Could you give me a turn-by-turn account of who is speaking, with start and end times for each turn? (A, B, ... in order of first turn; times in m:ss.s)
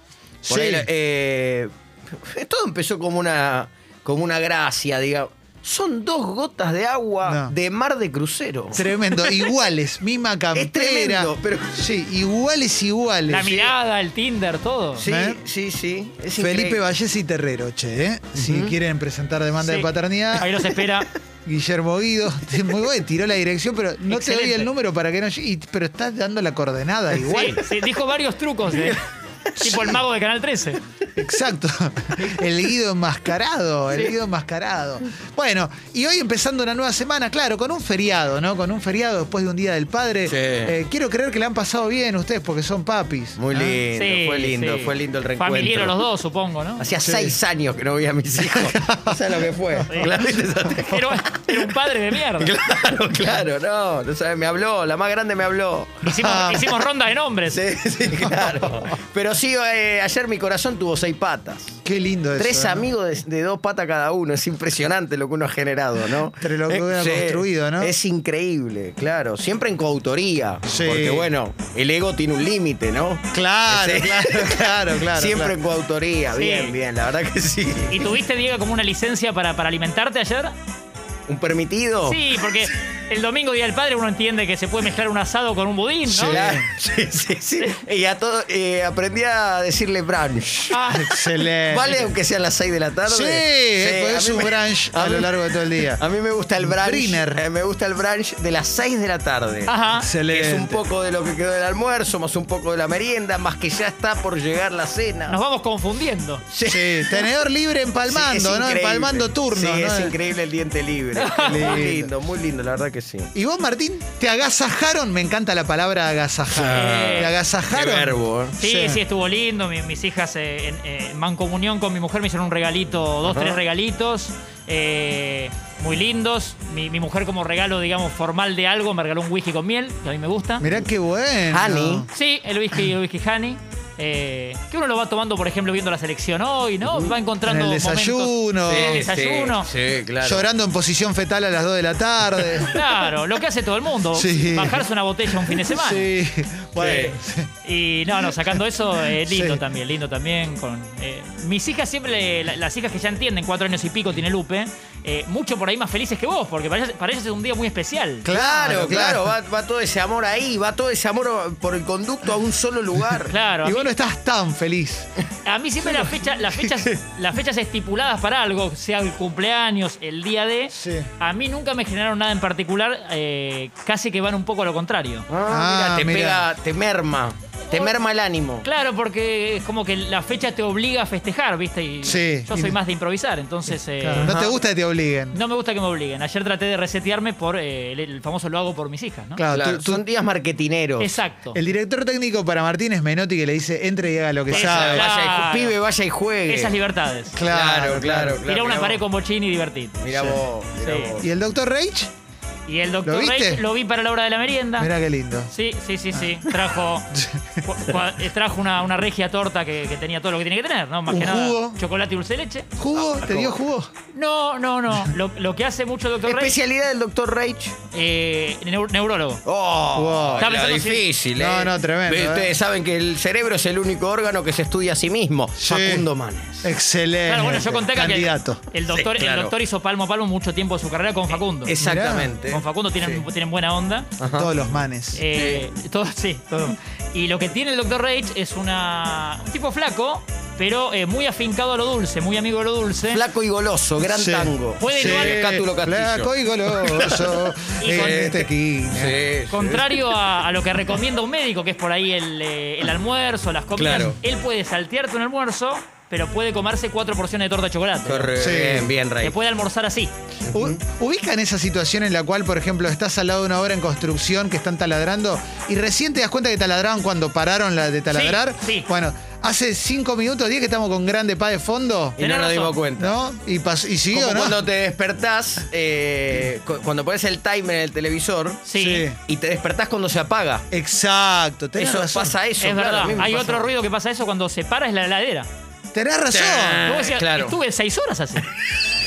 0:00.4-0:09.3 A
0:00.5-0:00.9 B
0:07.2-0:07.5 B
0:08.7-0:13.7 B
0:10.5-0:11.7 A
0:13.3-0:15.0 C
0:15.0-0:16.8 A
0:15.0-0:15.4 B
0:16.4-0:20.6 B
0:18.4-0:18.8 A
0:19.6-0:21.1 C
0:21.5-0:27.6 B
0:24.1-0:24.7 C
0:27.2-0:29.0 C
0:28.7-0:29.0 A
0:29.6-0:30.8 C
0:31.2-0:43.8 B
0:40.3-0:40.7 A
0:43.4-0:46.0 A
0:44.0-0:46.8 C
0:46.8-0:51.7 A
0:47.0-0:47.4 B
0:48.4-0:49.2 B
0:50.8-0:52.5 C
0:52.4-0:56.0 A
0:56.0-0:57.6 C
0:56.1-0:56.9 B
0:57.5-1:01.8 A
0:58.3-0:58.6 B
1:01.8-1:02.9 B
1:02.4-1:18.0 A
1:06.4-1:07.9 B
1:10.7-1:11.3 B
1:13.3-1:15.6 B
1:16.3-1:16.8 C
1:17.9-1:20.5 C
1:21.3-1:22.2 A
1:22.1-1:26.4 C
1:26.1-1:26.7 B
1:26.3-1:30.8 A
1:30.7-1:31.1 C
1:30.9-1:32.1 B
1:31.7-1:35.3 A
1:33.1-1:36.0 B
1:36.0-1:39.7 A
1:36.6-1:37.4 B
1:39.7-1:40.1 C
1:40.0-1:40.8 B
1:40.3-1:45.4 A
1:45.3-1:46.4 C
1:46.5-1:47.3 A
1:46.6-1:50.2 B
1:48.1-1:53.3 A
1:51.2-1:51.8 C
1:51.4-1:52.1 B
1:53.3-1:59.0 B
1:56.5-1:58.6 A
1:56.7-1:57.3 C
1:58.6-2:10.6 C
2:03.2-2:03.6 A
2:10.6-2:12.1 B
2:11.5-2:12.1 A
2:12.1-2:19.7 C
2:17.4-2:19.1 B
2:18.7-2:20.5 A
2:20.2-2:22.8 B
2:22.7-2:26.1 C
2:24.1-2:24.8 B
2:25.6-2:27.5 B
2:26.8-2:27.2 A
2:27.6-2:38.3 C
2:29.2-2:29.6 B
2:38.2-2:39.3 B
2:38.3-2:43.4 A
2:43.3-2:43.9 C
2:43.6-2:45.1 B
2:45.5-2:55.3 C
2:50.7-2:51.1 B
2:55.3-2:58.6 A
2:55.5-2:56.4 B
2:58.6-3:04.3 C
3:02.0-3:02.8 B
3:04.0-3:05.4 B
3:04.2-3:04.6 A
3:05.3-3:09.4 C
3:09.4-3:10.0 B
3:09.5-3:11.1 A
3:11.0-3:11.6 C
3:11.5-3:15.1 B
3:14.5-3:16.7 A
3:14.5-3:15.7 C
3:16.5-3:17.4 C
3:17.3-3:18.4 B
3:17.5-3:19.0 A
3:18.5-3:20.0 C
3:20.0-3:21.3 A
3:20.1-3:20.4 B
3:20.8-3:21.1 C
3:21.2-3:22.1 B
3:22.7-3:24.9 C
3:23.0-3:23.6 B
3:24.8-3:25.5 B
3:25.5-3:27.1 C
3:27.2-3:27.6 B
3:27.6-3:32.7 C
3:31.1-3:31.8 B
3:32.8-3:33.9 B
3:33.1-3:33.5 A
3:34.1-3:36.5 C
3:36.2-3:37.8 A
3:37.9-3:39.4 C
3:39.4-3:46.7 A
3:39.9-3:40.5 B
3:40.4-3:41.0 C
3:41.4-3:42.5 B
3:45.6-3:46.1 B
3:46.6-3:48.6 B
3:47.3-3:51.7 C
3:48.9-3:49.5 A
3:51.6-3:52.6 A
3:51.8-3:52.4 B
3:52.5-3:54.1 C
3:54.2-3:54.5 A
3:54.3-3:55.2 B
3:55.2-4:03.2 C
3:55.3-3:55.6 A
4:03.1-4:10.0 A
4:04.1-4:09.2 B
4:04.8-4:05.4 C
4:07.8-4:08.3 C
4:09.5-4:18.3 C
4:13.8-4:14.2 A
4:18.1-4:19.4 A
4:18.4-4:18.9 B
4:19.2-4:20.1 C
4:20.4-4:20.8 A
4:20.5-4:32.2 B
4:28.1-4:28.9 C
4:32.2-4:33.2 A
4:32.2-4:32.8 C
4:33.0-4:34.6 B
4:34.1-4:38.6 A
4:38.7-4:39.1 C
4:38.7-4:39.2 B
4:39.3-4:40.6 A
4:40.7-4:42.4 B
4:41.8-4:43.7 A
4:42.6-4:45.5 C
4:45.9-4:47.0 B
4:46.3-4:47.6 A
4:46.9-4:48.5 C